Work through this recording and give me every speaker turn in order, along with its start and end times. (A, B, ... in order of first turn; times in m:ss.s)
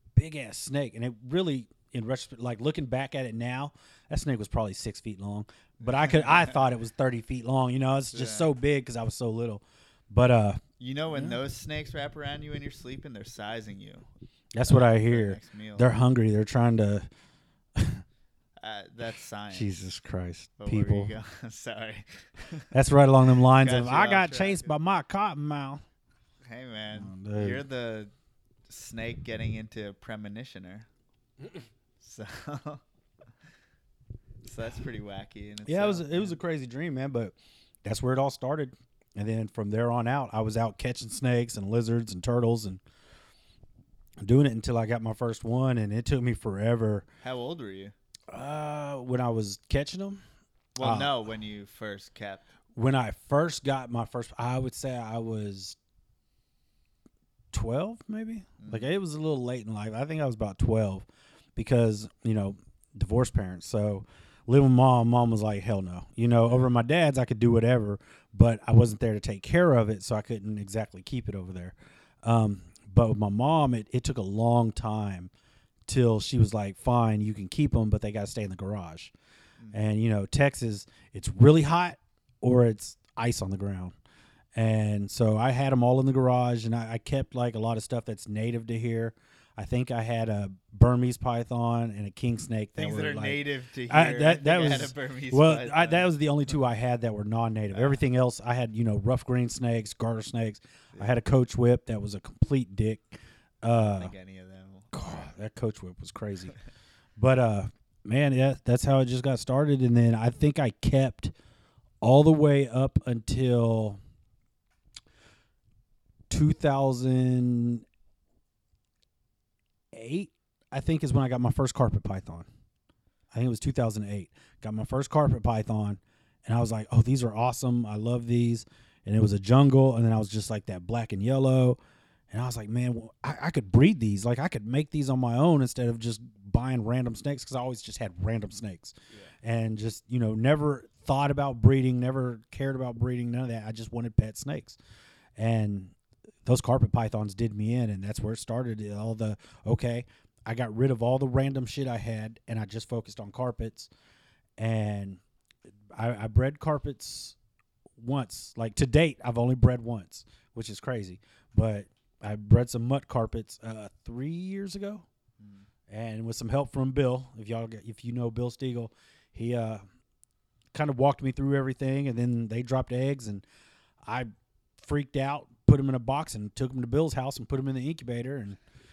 0:00.2-0:11.4 A
0:05.8-0:06.6 B
0:08.1-0:08.5 B
0:10.8-0:14.1 B
0:14.5-0:17.1 A
0:14.6-0:15.9 B
0:17.8-0:18.0 A
0:18.6-0:19.9 B
0:19.5-0:21.1 A
0:20.6-0:22.7 B
0:22.7-0:25.8 A
0:23.2-0:24.7 B
0:26.4-0:28.1 B
0:26.9-0:27.6 A
0:28.7-0:30.9 B
0:31.4-0:31.6 A
0:32.0-0:32.8 B
0:34.4-0:36.4 B
0:35.6-0:42.8 A
0:44.2-0:47.1 A
0:47.2-0:47.9 B
0:48.3-0:50.2 A
0:50.8-0:52.5 B
0:50.8-0:51.1 A
0:52.7-0:55.8 A
0:57.5-1:15.3 A
0:58.6-0:58.9 B
1:06.4-1:06.7 B
1:15.9-1:19.1 A
1:19.7-1:24.0 A
1:24.5-1:44.1 A
1:32.8-1:36.1 B
1:37.7-1:38.0 B
1:43.9-1:45.3 B
1:44.9-1:46.6 A
1:47.2-1:51.3 A
1:52.0-1:54.0 A
1:56.3-1:57.8 A
1:59.9-2:02.5 A
2:03.3-2:11.8 A
2:12.3-2:24.8 A
2:19.1-2:19.3 B
2:25.4-2:33.9 A
2:34.6-2:35.2 A
2:35.9-2:37.4 A
2:38.0-2:45.1 A
2:45.4-2:45.7 B
2:45.9-2:49.8 A
2:50.7-2:53.4 A
2:54.0-2:58.6 A